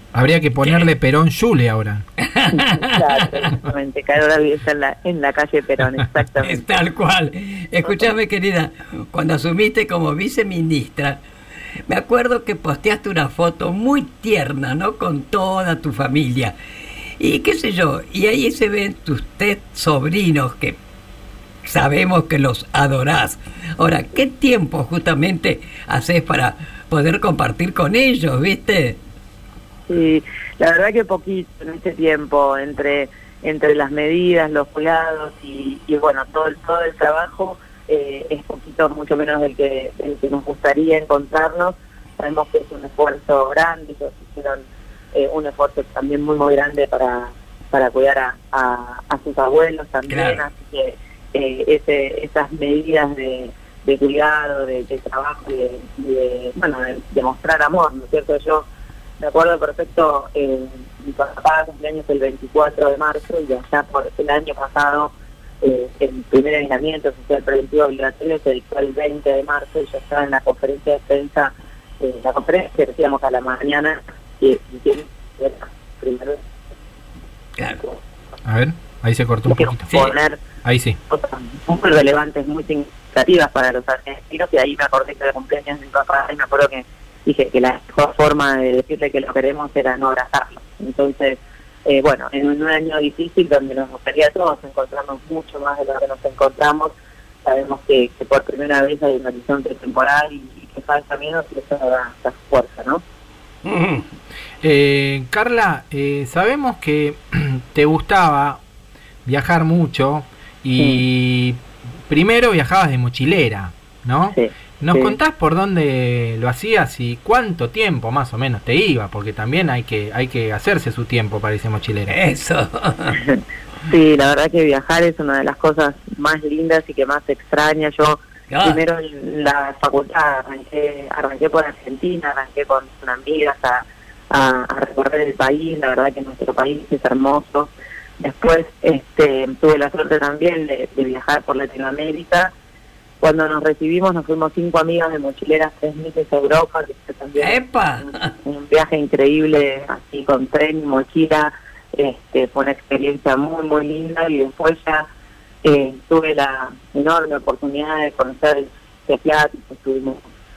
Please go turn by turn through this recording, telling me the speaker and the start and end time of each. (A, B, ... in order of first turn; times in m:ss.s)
0:00.1-0:02.0 A
0:02.3-0:03.1 B
0:02.5-0:06.6 C
0:06.4-0:11.2 B
0:07.8-0:08.1 C
0:11.9-0:16.5 B
0:17.2-0:20.8 B
0:21.6-0:29.0 B
0:29.9-0:44.6 C
0:45.1-0:58.6 C
0:50.1-0:50.4 B
0:59.2-1:05.1 C
1:05.6-1:16.4 C
1:18.4-1:19.9 A
1:19.5-1:20.4 C
1:20.6-1:21.0 A
1:21.1-1:36.9 C
1:37.4-1:43.0 C
1:43.6-1:44.0 B
1:44.6-1:48.6 A
1:49.2-2:02.2 A
1:54.3-1:55.2 C
2:02.1-2:03.2 B
2:03.2-2:22.5 C
2:08.5-2:08.8 B
2:23.2-2:35.0 C
2:27.4-2:28.3 B
2:35.6-2:40.2 C